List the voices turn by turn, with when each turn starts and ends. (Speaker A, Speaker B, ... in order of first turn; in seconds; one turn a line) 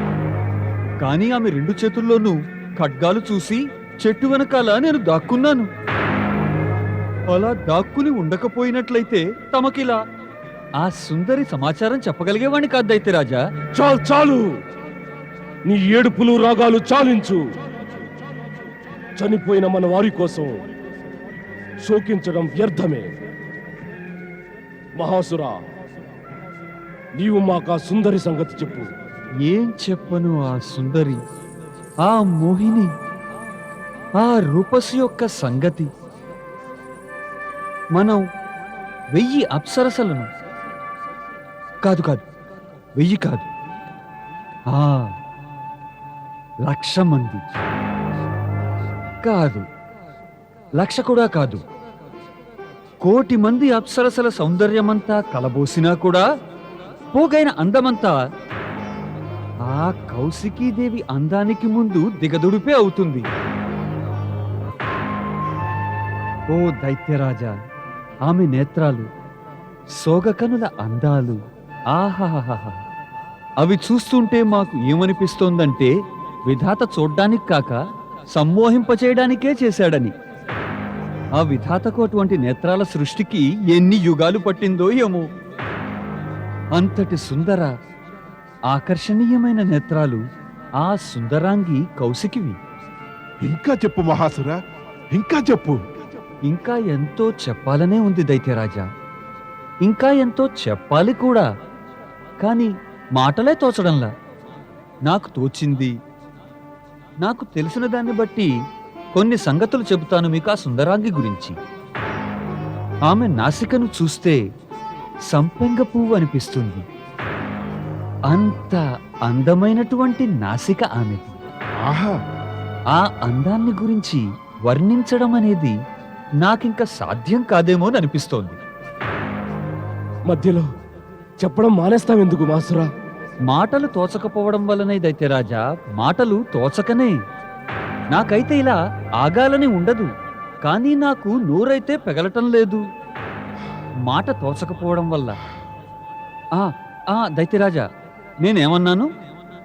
Speaker A: 1.0-5.7
Speaker A: 7.3-10.0
Speaker A: 10.8-13.4
Speaker B: 13.8-14.5
Speaker B: 15.7-17.4
Speaker B: 19.2-20.6
Speaker B: 21.8-23.1
Speaker B: 25.0-25.6
Speaker B: 27.2-28.9
Speaker A: 29.4-31.2
Speaker A: 32.0-32.9
Speaker A: 34.2-35.9
Speaker A: 38.0-38.2
Speaker A: 39.1-40.3
Speaker A: 41.8-42.2
Speaker A: 43.0-43.5
Speaker A: 44.7-45.2
Speaker A: 46.7-47.6
Speaker A: 49.2-49.7
Speaker A: 50.8-51.6
Speaker A: 53.0-56.3
Speaker A: 57.1-58.2
Speaker A: 59.7-63.3
Speaker A: 66.5-67.5
Speaker A: 68.2-69.1
Speaker A: 70.0-71.4
Speaker A: 71.9-72.8
Speaker A: 73.6-75.9
Speaker A: 76.5-77.8
Speaker A: 78.3-80.1
Speaker A: 81.3-85.3
Speaker A: 86.7-87.7
Speaker A: 88.7-90.2
Speaker A: 90.8-92.6
Speaker C: 93.4-94.6
Speaker C: 95.1-95.8
Speaker A: 96.5-98.9
Speaker A: 99.8-101.5
Speaker A: 102.4-104.1
Speaker A: 105.1-105.9
Speaker A: 107.2-108.5
Speaker A: 109.2-111.6
Speaker A: 113.1-114.4
Speaker A: 115.3-116.8
Speaker A: 118.3-121.4
Speaker C: 121.8-122.2
Speaker A: 123.0-125.8
Speaker A: 126.4-128.6
Speaker B: 130.3-130.7
Speaker B: 131.4-132.9
Speaker A: 133.5-137.2
Speaker A: 138.1-140.1
Speaker A: 140.7-142.8
Speaker A: 144.1-145.4
Speaker A: 146.6-147.9
Speaker A: 148.4-149.1